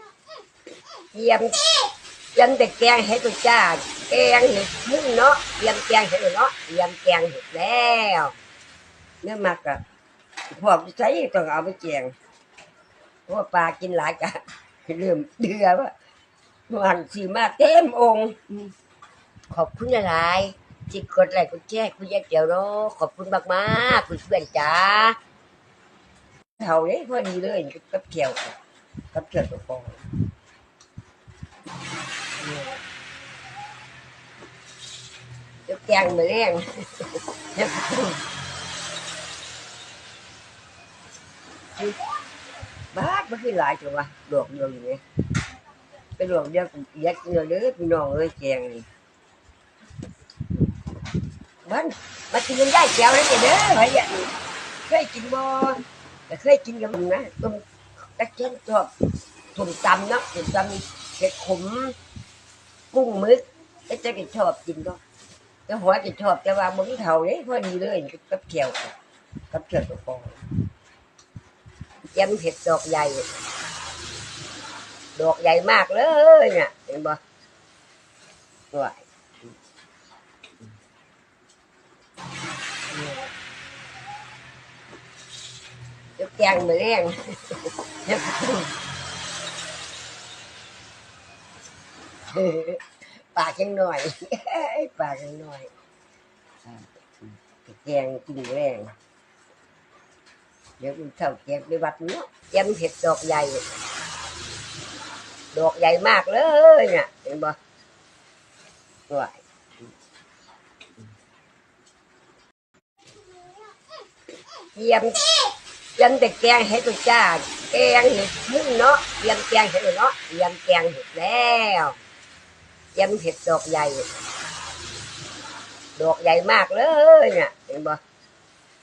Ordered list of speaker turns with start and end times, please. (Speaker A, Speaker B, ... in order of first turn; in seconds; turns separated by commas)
Speaker A: 1.1-1.7, Speaker A: 2.4-8.4, Speaker A: 9.2-9.8, Speaker A: 10.5-12.1, Speaker A: 13.3-15.9, Speaker A: 16.7-18.6, Speaker A: 19.5-25.2, Speaker A: 26.6-28.6, Speaker A: 29.1-30.1, Speaker A: 32.4-32.8, Speaker A: 35.7-38.2, Speaker A: 42.9-45.0, Speaker A: 46.2-48.9, Speaker A: 51.6-54.3, Speaker A: 54.9-58.9, Speaker A: 59.5-62.0, Speaker A: 62.9-65.0, Speaker A: 65.7-68.9, Speaker A: 69.5-70.4, Speaker A: 72.2-73.3, Speaker A: 75.2-77.2, Speaker A: 78.7-79.5, Speaker A: 82.9-83.3, Speaker A: 86.2-88.8, Speaker A: 92.3-95.7, Speaker A: 96.7-98.9, Speaker A: 100.8-103.6, Speaker A: 105.5-107.6, Speaker A: 109.1-109.4, Speaker A: 114.8-115.4, Speaker A: 116.0-122.0, Speaker A: 123.0-124.1, Speaker A: 126.0-128.0